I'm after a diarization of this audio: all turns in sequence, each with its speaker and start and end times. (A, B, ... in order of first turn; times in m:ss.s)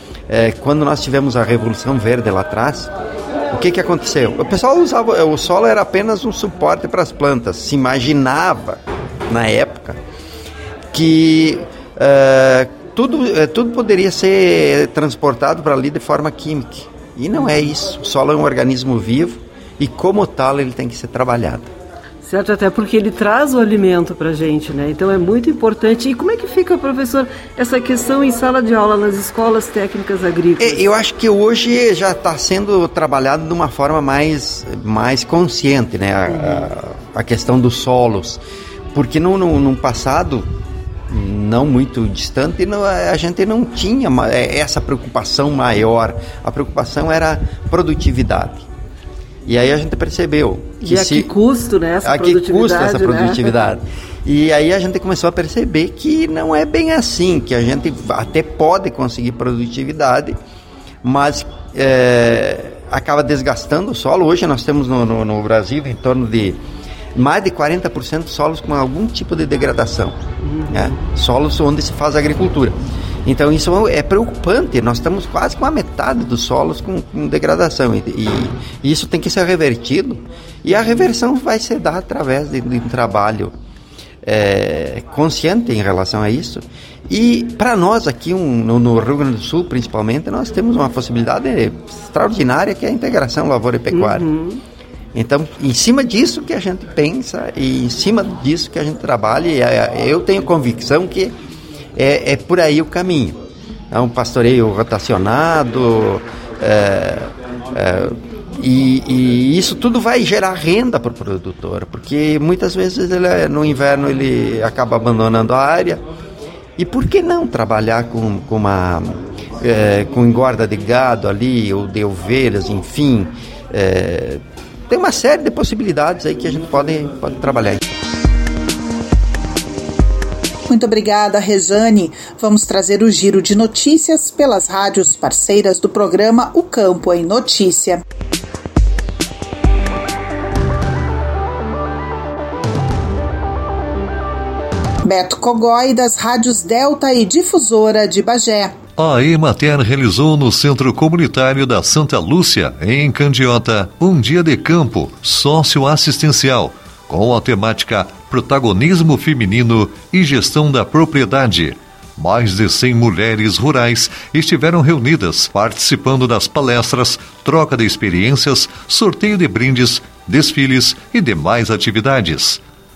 0:00.3-0:02.9 A
0:03.5-0:10.0 A
0:10.9-0:21.7 A
0:22.2-0:30.9 B
0:30.6-0:38.4 A
0:36.3-0:36.7 B
0:38.9-0:40.5 A
0:41.1-0:48.7 A
0:49.5-0:51.3 A
0:50.8-0:53.6 B
0:52.0-1:00.4 A
1:01.0-1:06.6 A
1:07.1-1:23.5 A
1:10.4-1:11.1 B
1:24.2-1:34.3 A
1:33.9-1:34.6 B
1:35.1-1:41.3 A
1:42.0-1:43.4 A
1:43.9-1:56.0 A
1:56.8-2:07.8 A
2:10.7-2:18.0 C
2:25.0-2:28.7 C
2:29.0-2:52.6 D